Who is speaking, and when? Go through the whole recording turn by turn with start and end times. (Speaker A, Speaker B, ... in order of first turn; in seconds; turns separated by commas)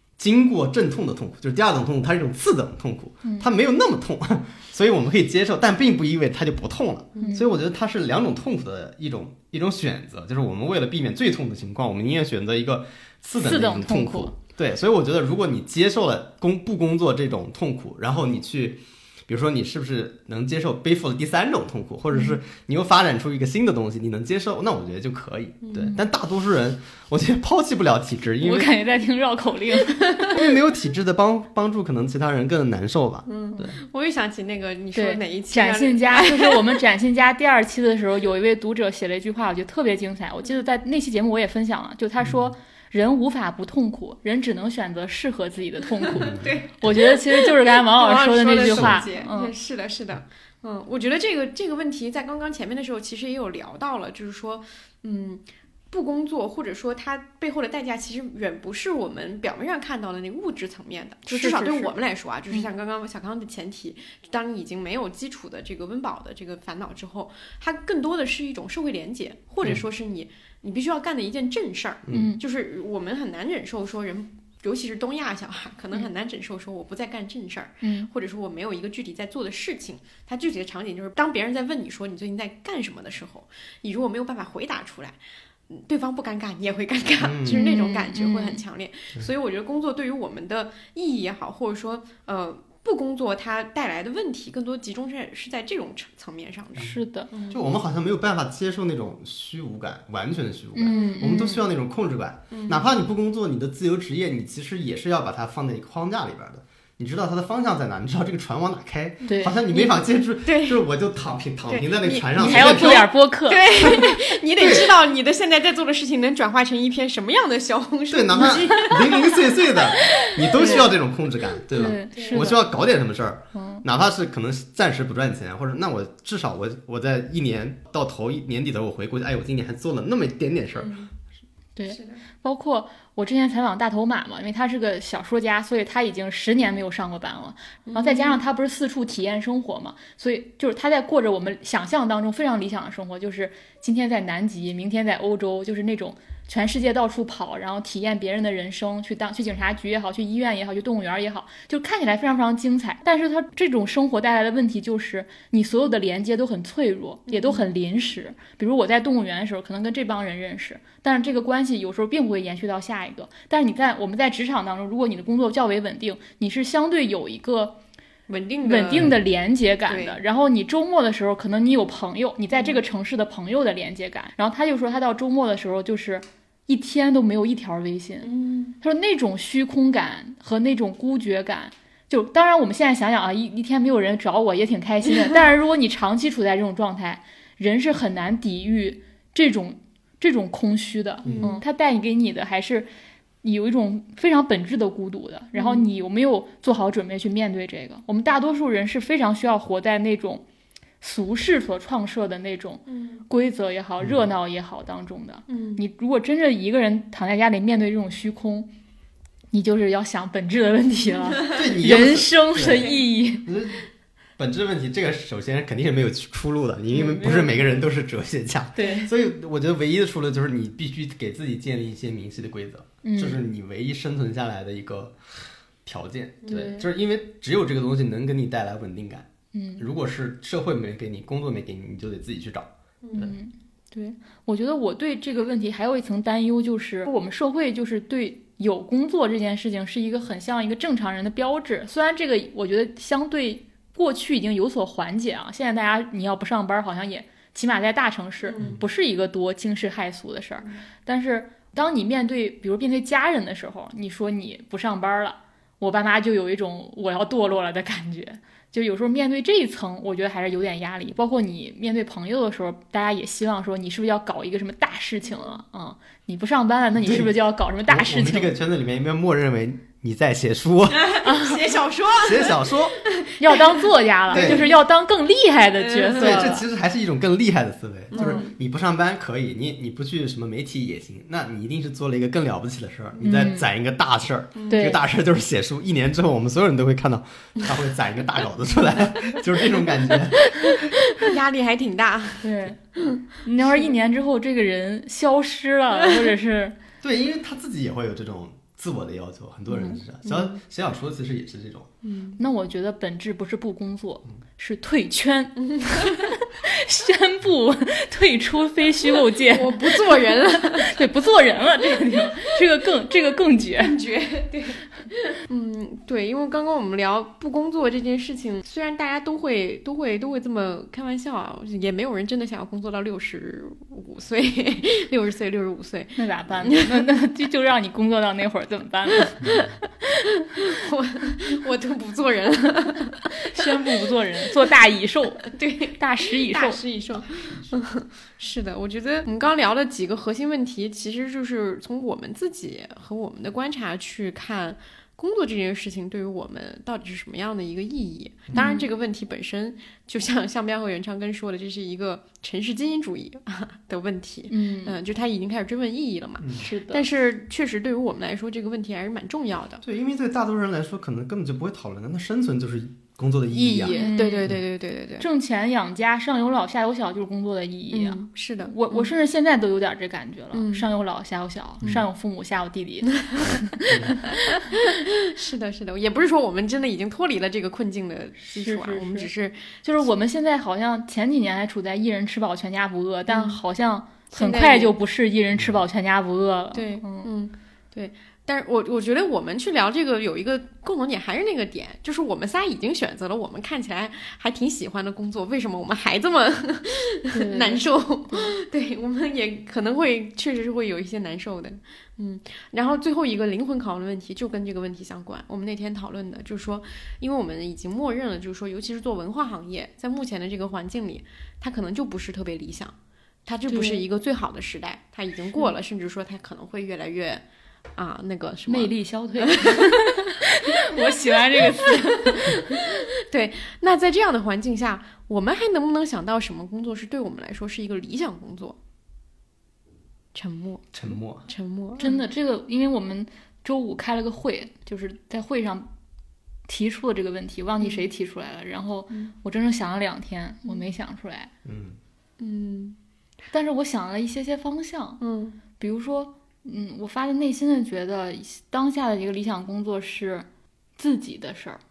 Speaker A: 0.2-28.7, Speaker B: 7.2-7.5, Speaker B: 13.4-14.3, Speaker C: 25.6-26.0, Speaker B: 28.4-30.3, Speaker A: 30.3-33.8, Speaker C: 33.3-36.6, Speaker B: 35.0-49.5, Speaker A: 42.2-42.5, Speaker C: 46.1-97.7, Speaker A: 46.2-46.5, Speaker A: 48.7-49.0, Speaker B: 61.3-61.9, Speaker A: 72.1-72.3, Speaker B: 72.1-72.4, Speaker B: 77.8-78.1, Speaker A: 87.2-87.6, Speaker B: 87.5-88.6, Speaker B: 96.8-97.3, Speaker A: 97.5-113.1, Speaker B: 100.8-101.6, Speaker C: 100.9-101.2, Speaker C: 102.5-102.9, Speaker B: 109.3-109.6, Speaker C: 110.5-110.8, Speaker C: 111.7-119.9, Speaker B: 112.4-114.0, Speaker A: 114.6-114.9, Speaker A: 118.1-130.9, Speaker B: 120.2-120.9, Speaker B: 121.7-122.6, Speaker C: 122.1-122.5, Speaker B: 123.5-123.8, Speaker C: 130.8-131.1, Speaker B: 131.8-167.8, Speaker C: 131.9-132.2, Speaker C: 137.9-138.4, Speaker C: 157.3-157.7, Speaker C: 168.3-169.2, Speaker B: 168.6-178.3, Speaker C: 169.9-170.2, Speaker C: 172.5-172.8, Speaker C: 178.2-178.8, Speaker B: 178.8-192.9, Speaker A: 191.2-191.6, Speaker C: 191.2-191.6, Speaker B: 193.4-200.4, Speaker C: 195.6-195.9, Speaker B: 201.0-208.7, Speaker C: 202.9-203.2, Speaker A: 204.0-204.3, Speaker C: 205.5-205.8, Speaker B: 209.5-213.5, Speaker A: 211.5-212.9, Speaker C: 212.6-213.0, Speaker A: 213.4-213.8, Speaker A: 214.4-233.3, Speaker B: 216.9-217.6, Speaker B: 218.8-219.1, Speaker B: 223.0-223.4, Speaker B: 226.5-226.8, Speaker B: 229.5-229.8, Speaker C: 233.0-233.3, Speaker B: 233.2-268.5, Speaker C: 248.5-248.8, Speaker C: 265.3-265.6, Speaker A: 267.0-267.3, Speaker A: 267.9-271.2, Speaker C: 270.9-274.8, Speaker B: 271.2-271.6, Speaker A: 272.2-273.0, Speaker B: 273.4-276.6, Speaker A: 274.3-274.6, Speaker C: 275.8-276.5, Speaker A: 276.2-290.5, Speaker C: 278.1-278.6, Speaker B: 278.2-278.4, Speaker B: 283.2-283.6, Speaker C: 284.6-285.0, Speaker B: 284.7-285.0, Speaker C: 290.8-293.2, Speaker B: 292.4-296.8, Speaker A: 297.0-301.9, Speaker B: 299.7-300.0, Speaker C: 302.0-302.4, Speaker B: 302.4-314.0, Speaker C: 305.6-306.3, Speaker C: 309.5-311.0, Speaker C: 313.8-327.0, Speaker B: 326.2-329.4, Speaker C: 330.7-333.2, Speaker B: 333.4-336.8, Speaker C: 335.5-359.8, Speaker A: 337.2-337.8, Speaker B: 348.5-348.9, Speaker B: 354.5-355.0, Speaker A: 356.4-356.7, Speaker B: 356.6-357.1, Speaker A: 359.8-363.9, Speaker C: 363.5-365.2, Speaker B: 363.9-364.6, Speaker B: 365.2-374.6, Speaker C: 367.9-369.1, Speaker C: 370.5-370.9, Speaker C: 374.9-379.8, Speaker B: 378.4-379.3, Speaker B: 379.8-387.3, Speaker C: 383.3-383.6, Speaker C: 384.3-384.9, Speaker C: 386.7-412.9, Speaker B: 397.3-397.8, Speaker C: 413.5-417.4, Speaker B: 413.7-414.0, Speaker C: 418.0-419.9, Speaker B: 418.7-422.9, Speaker C: 422.7-428.8, Speaker C: 430.3-432.1, Speaker A: 430.9-431.5, Speaker B: 432.0-435.9, Speaker B: 436.7-441.5, Speaker C: 437.8-438.1, Speaker A: 441.6-442.0, Speaker C: 442.4-443.0, Speaker B: 443.5-445.2, Speaker C: 445.2-445.6, Speaker B: 445.8-450.5, Speaker B: 451.0-451.8